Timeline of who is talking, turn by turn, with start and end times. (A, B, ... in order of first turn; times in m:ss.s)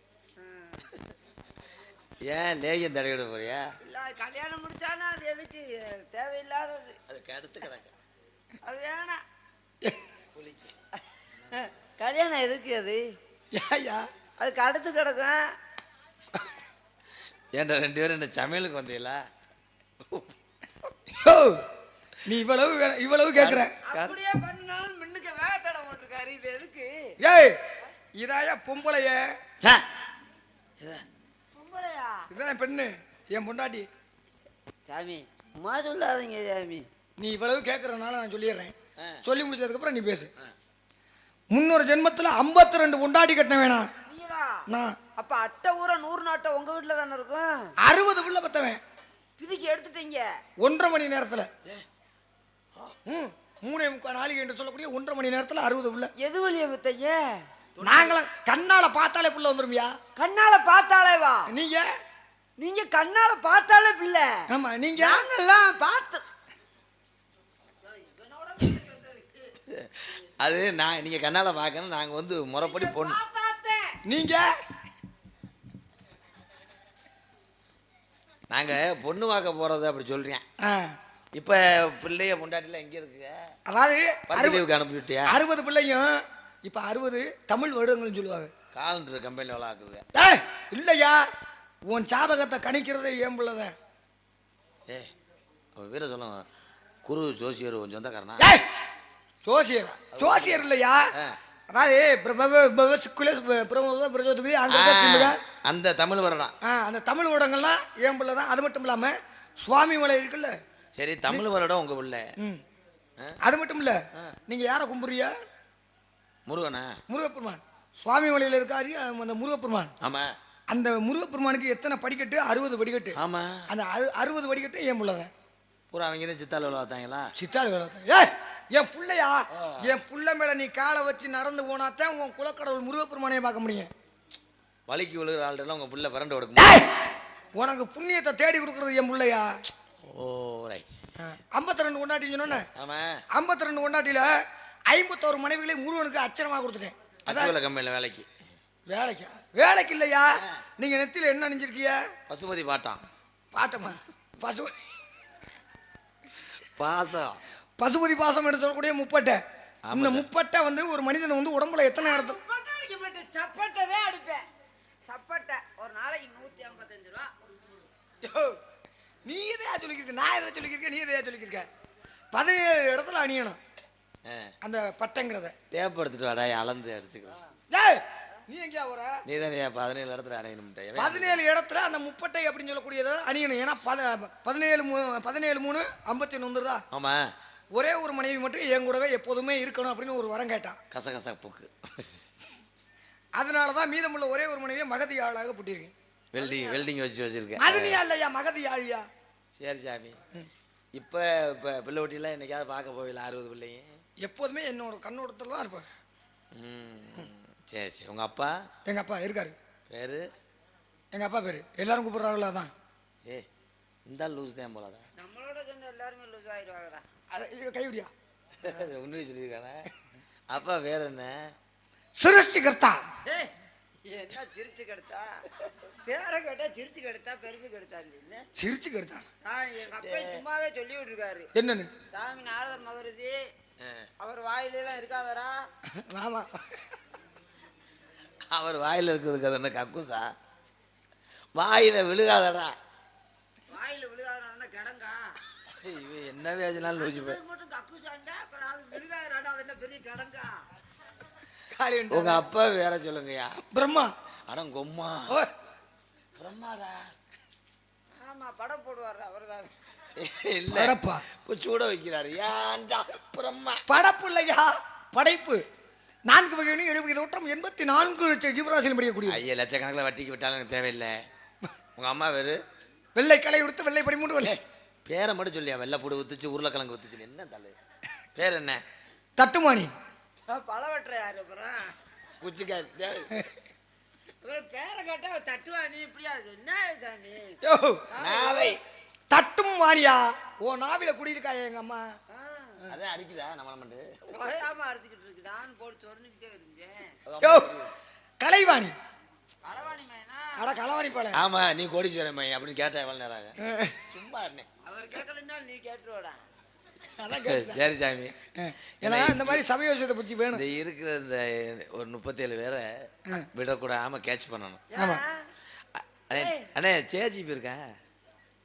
0:00.4-0:00.9 A
0:02.2-0:03.7 B
0:03.8-0:07.0 A
0:07.1-0:07.9 B
0:08.6-0:09.2 A
0:10.3-0:10.7 B
0:11.5-0:13.0 A
0:13.5-0:14.1 C
0:14.4-0:15.4 A
0:17.5-0:19.2 B
0:21.1-0:21.6 C
0:22.2-0:23.7 C
0:23.3-0:24.1 B
0:23.8-0:27.1 A
0:27.2-0:27.6 C
0:28.1-0:29.4 C
0:30.8-0:31.0 B
0:31.5-0:32.3 A
0:32.3-0:33.9 C
0:34.8-0:36.8 A
0:37.2-0:40.3 C
0:39.0-0:39.2 B
0:41.5-0:43.9 C
0:44.0-0:44.6 A
0:44.7-0:45.0 C
0:45.2-0:47.7 A
0:47.8-0:48.8 C
0:49.4-0:50.3 A
0:50.6-0:51.5 C
0:53.0-0:56.1 C
0:56.2-0:57.2 A
0:57.8-0:58.2 B
0:57.8-1:00.0 C
1:00.2-1:01.5 A
1:01.5-1:01.9 C
1:02.6-1:04.4 A
1:04.5-1:05.2 C
1:05.0-1:06.2 A
1:07.8-1:09.5 A
1:09.7-1:13.2 B
1:12.6-1:14.0 A
1:14.0-1:14.5 C
1:18.5-1:20.4 B
1:20.6-1:21.0 C
1:21.3-1:23.3 B
1:23.7-1:24.6 C
1:24.3-1:25.4 B
1:25.3-1:28.5 C
1:28.7-1:30.0 B
1:30.1-1:31.2 C
1:31.8-1:33.7 C
1:35.8-1:36.4 B
1:37.0-1:38.5 B
1:38.4-1:38.6 C
1:39.4-1:41.1 C
1:40.1-1:41.4 B
1:41.7-1:45.4 C
1:44.7-1:46.5 B
1:46.6-1:50.6 C
1:50.9-1:52.3 B
1:53.4-1:55.3 C
1:56.4-1:57.0 B
1:57.1-1:59.9 C
2:00.0-2:00.3 B
2:00.7-2:03.2 C
2:03.1-2:03.6 B
2:03.7-2:05.3 C
2:05.9-2:07.3 B
2:07.4-2:13.9 C
2:09.5-2:10.0 B
2:14.9-2:16.8 B
2:16.6-2:16.9 C
2:17.6-2:19.5 C
2:20.0-2:21.1 B
2:21.2-2:22.7 C
2:22.8-2:23.2 B
2:23.3-2:24.3 C
2:24.9-2:27.5 C
2:27.2-2:28.3 B
2:28.9-2:32.0 C
2:32.3-2:33.0 B
2:33.5-2:34.8 C
2:36.8-2:37.4 B
2:37.8-2:39.4 C
2:39.8-2:40.3 B
2:39.9-2:42.4 C
2:42.0-2:44.4 A
2:45.1-2:47.3 A
2:48.2-2:48.6 C
2:49.2-2:51.7 C
2:52.3-2:53.6 C
2:54.2-2:54.5 B
2:54.6-2:55.5 C
2:55.7-2:57.4 B
2:57.7-2:59.2 C
2:59.2-3:01.4 B
3:01.0-3:06.8 C
3:06.9-3:07.3 B
3:07.7-3:10.8 C
3:10.9-3:12.1 B
3:13.4-3:15.9 C
3:16.3-3:18.0 B
3:16.4-3:16.8 A
3:17.6-3:19.1 C
3:19.6-3:20.2 B
3:20.9-3:24.0 B
3:24.2-3:25.9 C
3:26.5-3:28.6 B
3:28.9-3:29.5 C
3:29.9-3:30.3 B
3:31.1-3:32.7 C
3:34.0-3:35.0 B
3:35.2-3:37.0 A
3:37.3-3:38.1 C
3:38.6-3:39.9 B
3:40.5-3:41.4 B
3:42.2-3:43.0 C
3:43.2-3:43.5 A
3:44.1-3:48.4 A
3:48.5-3:49.3 C
3:49.4-3:51.5 A
3:50.0-3:50.4 B
3:51.5-3:51.9 C
3:52.1-3:53.4 A
3:53.8-3:54.1 B
3:54.2-3:55.6 A
3:55.9-3:56.6 C
3:58.5-4:00.3 B
4:01.5-4:02.8 B
4:03.7-4:05.2 A
4:05.7-4:07.4 B
4:07.0-4:10.5 A
4:11.7-4:12.4 C
4:12.1-4:13.6 B
4:13.7-4:14.1 C
4:14.5-4:15.4 B
4:16.4-4:17.1 B
4:18.2-4:19.7 A
4:20.2-4:23.8 B
4:20.7-4:21.2 C
4:23.9-4:25.6 C
4:26.3-4:29.4 C
4:29.2-4:31.2 B
4:32.0-4:32.6 B
4:33.1-4:34.6 C
4:34.4-4:37.7 B
4:38.4-4:38.8 B
4:39.4-4:39.9 C
4:40.5-4:41.9 A
4:42.4-4:43.3 B
4:44.4-4:47.6 A
4:47.6-4:48.0 C
4:48.1-4:48.8 A
4:48.2-4:48.8 B
4:49.3-4:52.1 C
4:52.3-4:52.8 A
4:52.9-4:54.0 B
4:54.3-4:57.1 A
4:57.2-4:57.9 B
4:57.4-4:57.7 C
4:58.4-4:58.9 C
4:59.6-5:00.8 A
5:00.6-5:01.4 C
5:01.3-5:03.6 B
5:03.6-5:04.0 C
5:04.1-5:04.7 B
5:04.8-5:06.4 A
5:07.0-5:07.8 C
5:07.4-5:08.4 B
5:08.6-5:10.6 C
5:09.0-5:09.6 B
5:10.5-5:12.9 B
5:13.5-5:14.8 B
5:14.9-5:15.5 A
5:15.0-5:15.2 C
5:15.9-5:17.8 B
5:16.3-5:16.6 A